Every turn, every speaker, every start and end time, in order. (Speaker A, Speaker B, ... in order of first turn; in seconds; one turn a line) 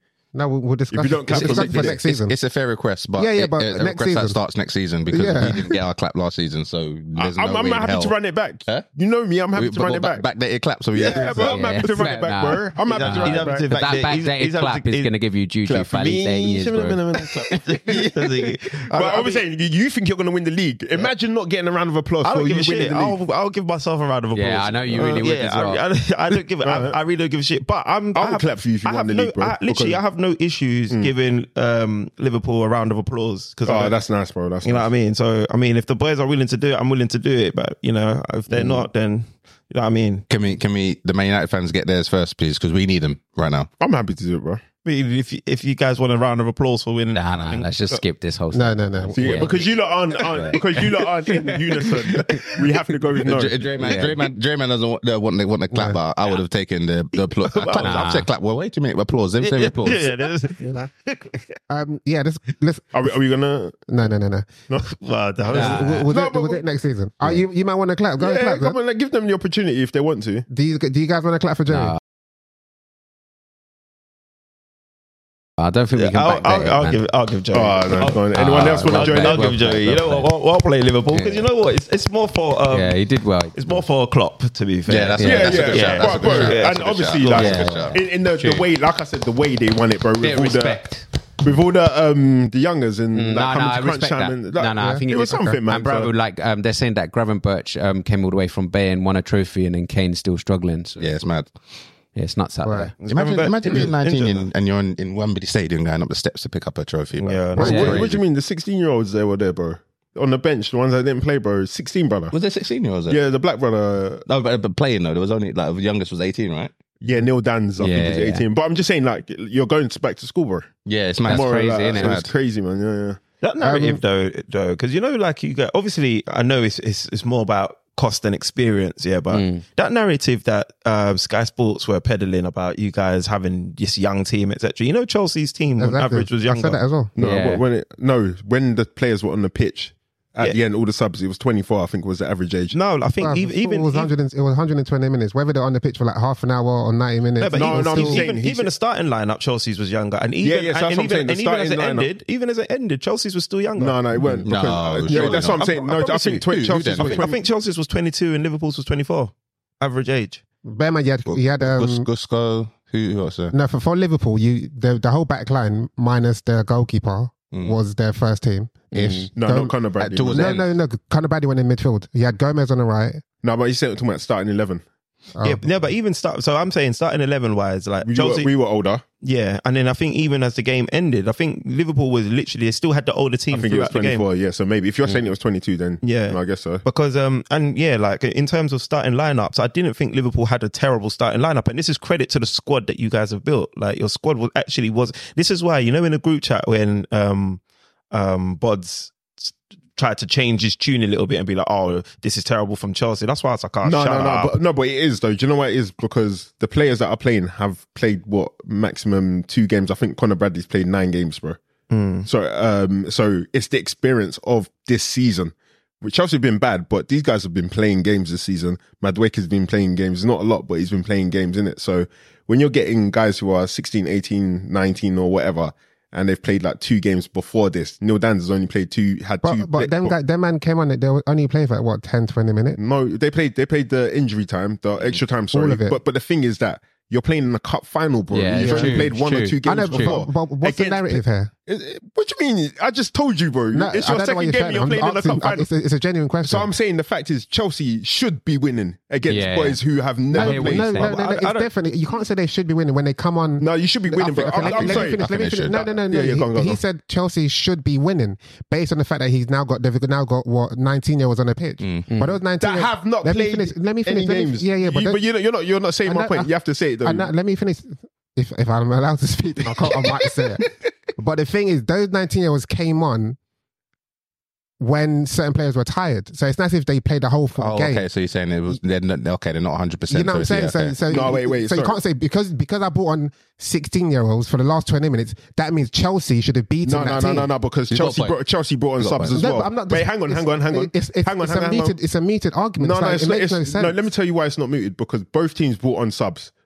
Speaker A: 0.3-2.4
Speaker B: 0.9-2.0
Speaker C: 1.3-8.2
Speaker A: 3.1-4.4
Speaker A: 5.1-5.7
Speaker B: 7.2-10.3
Speaker C: 9.5-11.8
Speaker B: 10.9-13.7
Speaker D: 11.1-11.5
Speaker E: 11.4-17.1
Speaker D: 12.8-15.1
Speaker B: 15.7-17.6
Speaker D: 17.5-19.4
Speaker B: 18.8-23.2
Speaker D: 22.2-34.0
Speaker E: 24.3-25.8
Speaker B: 26.6-27.0
Speaker B: 28.2-30.0
Speaker B: 33.6-34.9
Speaker D: 34.6-40.3
Speaker C: 40.3-43.7
Speaker B: 43.8-44.6
Speaker D: 44.8-48.0
Speaker E: 47.1-49.6
Speaker A: 48.5-49.5
Speaker B: 49.1-53.6
Speaker D: 50.2-52.6
Speaker E: 50.3-50.6
Speaker C: 53.3-60.1
Speaker E: 53.8-54.2
Speaker A: 55.7-56.0
Speaker D: 57.4-58.1
Speaker E: 57.8-58.3
Speaker D: 59.4-61.6
Speaker A: 60.6-60.9
Speaker A: 61.7-63.2
Speaker B: 62.9-63.9
Speaker A: 63.9-64.7
Speaker D: 64.8-66.1
Speaker A: 65.5-68.8
Speaker E: 65.5-66.1
Speaker B: 65.5-66.6
Speaker B: 68.2-70.5
Speaker A: 70.5-72.0
Speaker E: 75.6-77.0
Speaker D: 76.0-83.0
Speaker B: 77.5-79.6
Speaker E: 78.0-80.3
Speaker E: 81.1-81.4
Speaker E: 82.7-83.8
Speaker D: 83.5-87.8
Speaker C: 84.9-88.0
Speaker E: 85.2-86.5
Speaker B: 85.2-96.1
Speaker E: 87.3-88.7
Speaker E: 90.2-91.1
Speaker E: 93.1-101.1
Speaker A: 94.8-95.6
Speaker C: 101.0-101.5
Speaker E: 102.2-102.9
Speaker A: 102.7-102.9
Speaker D: 103.0-104.5
Speaker C: 103.1-108.2
Speaker D: 107.2-108.0
Speaker A: 107.5-108.0
Speaker B: 107.5-112.4
Speaker E: 107.6-108.0
Speaker C: 112.3-113.2
Speaker B: 113.1-114.3
Speaker C: 114.3-116.7
Speaker B: 117.0-123.2
Speaker E: 117.8-118.4
Speaker C: 120.8-122.3
Speaker E: 121.3-122.2
Speaker D: 123.4-136.8
Speaker A: 123.6-124.0
Speaker E: 129.3-129.6
Speaker A: 135.8-137.1
Speaker B: 137.2-142.8
Speaker E: 137.2-137.6
Speaker D: 142.7-144.1
Speaker A: 143.2-148.2
Speaker D: 147.4-154.4
Speaker B: 147.5-148.7
Speaker B: 150.4-152.1
Speaker B: 153.8-157.4
Speaker C: 154.4-157.3
Speaker D: 155.1-156.4
Speaker D: 157.0-160.4
Speaker A: 160.7-162.1
Speaker C: 161.3-163.5
Speaker A: 163.5-169.8
Speaker E: 168.9-169.3
Speaker B: 169.3-170.7
Speaker C: 170.0-170.7
Speaker A: 170.3-173.2
Speaker B: 173.4-174.8
Speaker A: 175.3-175.8
Speaker D: 175.4-178.5
Speaker B: 178.0-179.0
Speaker D: 179.2-184.3
Speaker B: 183.5-186.8
Speaker D: 186.0-204.6
Speaker B: 203.8-211.6
Speaker D: 211.9-212.3
Speaker B: 212.2-230.2
Speaker A: 229.4-232.8
Speaker B: 232.8-245.7
Speaker A: 235.5-236.0
Speaker E: 238.3-240.2
Speaker A: 238.6-241.5
Speaker A: 243.7-246.7
Speaker B: 246.4-251.4
Speaker E: 249.3-251.2
Speaker A: 250.3-265.2
Speaker D: 251.0-251.7
Speaker B: 253.6-256.8
Speaker C: 254.7-255.8
Speaker C: 261.8-262.1
Speaker E: 262.1-262.4
Speaker B: 262.6-267.3
Speaker A: 266.1-266.5
Speaker A: 267.0-273.4
Speaker B: 269.7-270.4
Speaker A: 274.8-278.1
Speaker C: 277.6-281.3
Speaker A: 280.1-287.5
Speaker B: 281.1-282.0
Speaker B: 286.9-292.0
Speaker C: 287.9-288.4
Speaker C: 289.0-289.5
Speaker A: 289.4-293.9
Speaker B: 292.8-296.5